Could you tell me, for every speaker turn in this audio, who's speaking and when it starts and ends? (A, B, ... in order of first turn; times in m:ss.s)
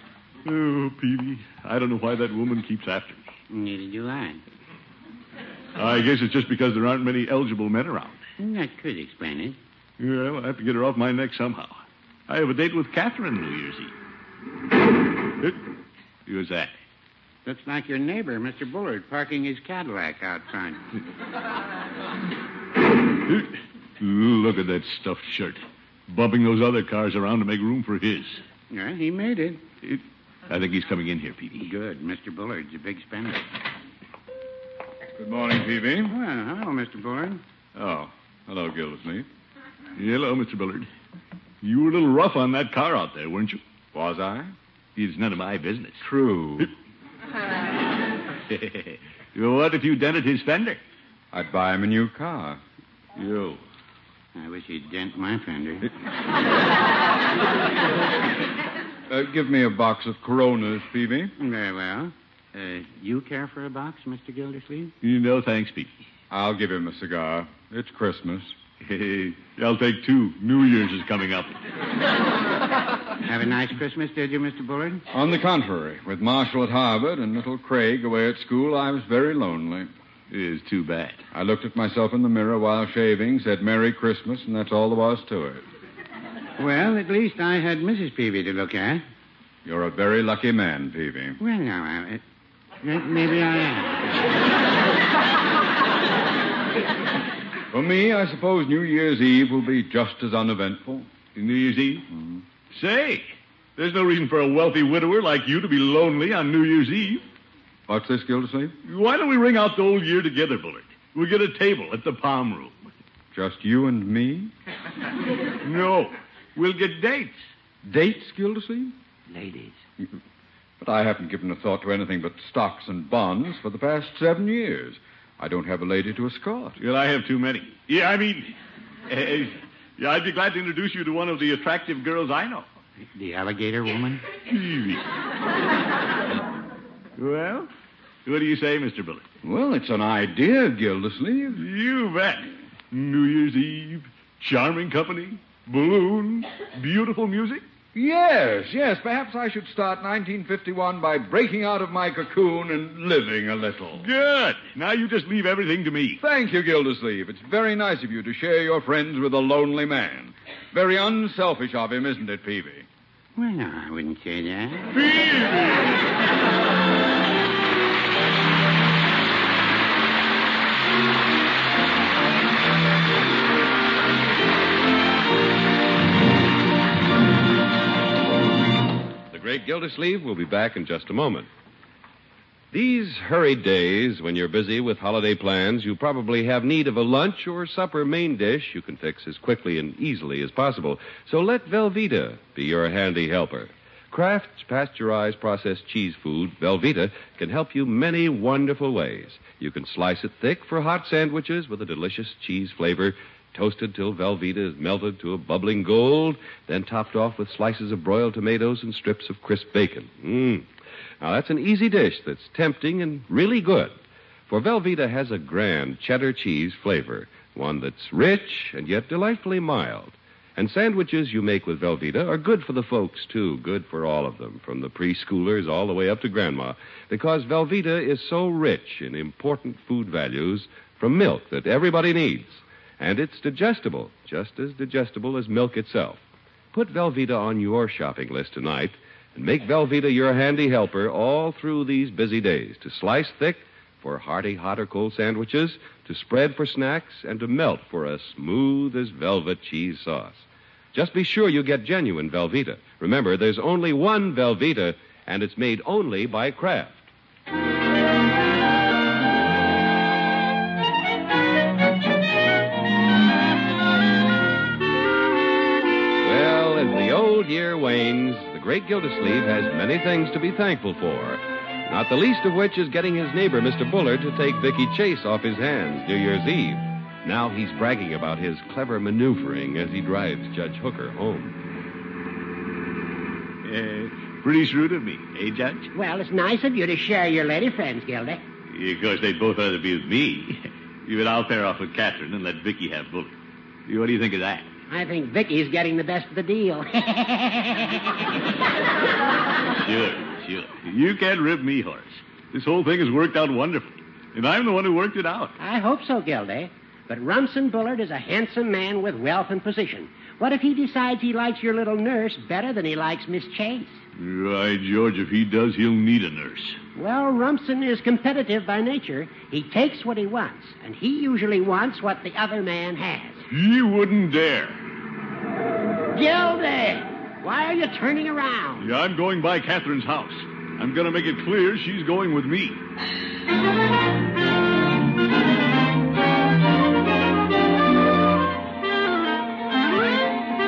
0:00.4-0:03.3 A
0:03.5-0:04.4 B
0:05.7-0:08.2 A
0:08.4-0:09.6 B
0:10.0-0:13.9 A
0:16.2-0:16.7 A
0:17.4-0:20.8 B
0:23.2-0:28.4 A
0:28.7-0:29.6 B
0:29.8-0:31.7 A
0:31.6-0:33.5 B
0:35.2-0:36.1 C
0:36.0-0:37.4 B
0:37.7-0:39.3 C
0:40.0-0:40.9 A
0:41.6-0:43.6 A
0:43.9-0:44.5 C
0:45.0-0:46.0 A
0:46.0-0:46.7 C
0:48.5-0:50.8 A
0:51.3-0:52.6 C
0:53.1-0:53.6 A
0:54.3-0:55.9 B
0:59.1-1:01.3 C
1:01.4-1:04.9 B
1:05.0-1:06.0 A
1:06.3-1:08.6 C
1:08.8-1:11.6 A
1:13.2-1:15.0 B
1:15.1-1:19.9 C
1:20.3-1:21.2 A
1:21.3-1:25.6 C
1:26.6-1:29.0 B
1:29.6-1:31.4 C
1:31.4-1:32.2 B
1:32.8-1:34.1 B
1:37.7-1:41.1 C
1:41.3-1:42.0 A
1:42.1-1:42.4 C
1:42.7-1:47.2 A
1:47.9-1:48.8 C
1:48.8-1:52.9 A
1:53.3-1:54.5 C
1:55.6-1:57.4 A
1:57.8-1:58.9 C
1:59.3-1:59.7 B
2:00.8-2:06.8 C
2:06.8-2:08.5 A
2:09.1-2:12.7 A
2:13.1-2:14.2 B
2:14.5-2:15.0 A
2:17.2-2:17.7 A
2:18.2-2:19.2 A
2:19.4-2:21.6 C
2:21.5-2:27.6 A
2:27.9-2:34.1 C
2:34.0-2:36.2 A
2:36.2-2:42.9 C
2:43.4-2:44.9 B
2:44.9-2:46.0 A
2:59.3-3:01.5 D
3:02.7-3:30.7 D
3:31.2-3:56.2 D
3:56.7-4:17.1 D
4:26.2-4:41.5 D
4:43.6-4:45.9 A
4:45.9-4:48.4 E
4:48.7-4:54.7 A
4:54.9-4:58.3 E
4:59.8-5:05.6 A
5:05.6-5:14.0 E
5:14.2-5:16.8 A
5:17.0-5:23.4 E
5:23.5-5:24.8 A
5:26.1-5:28.9 E
5:28.8-5:32.8 A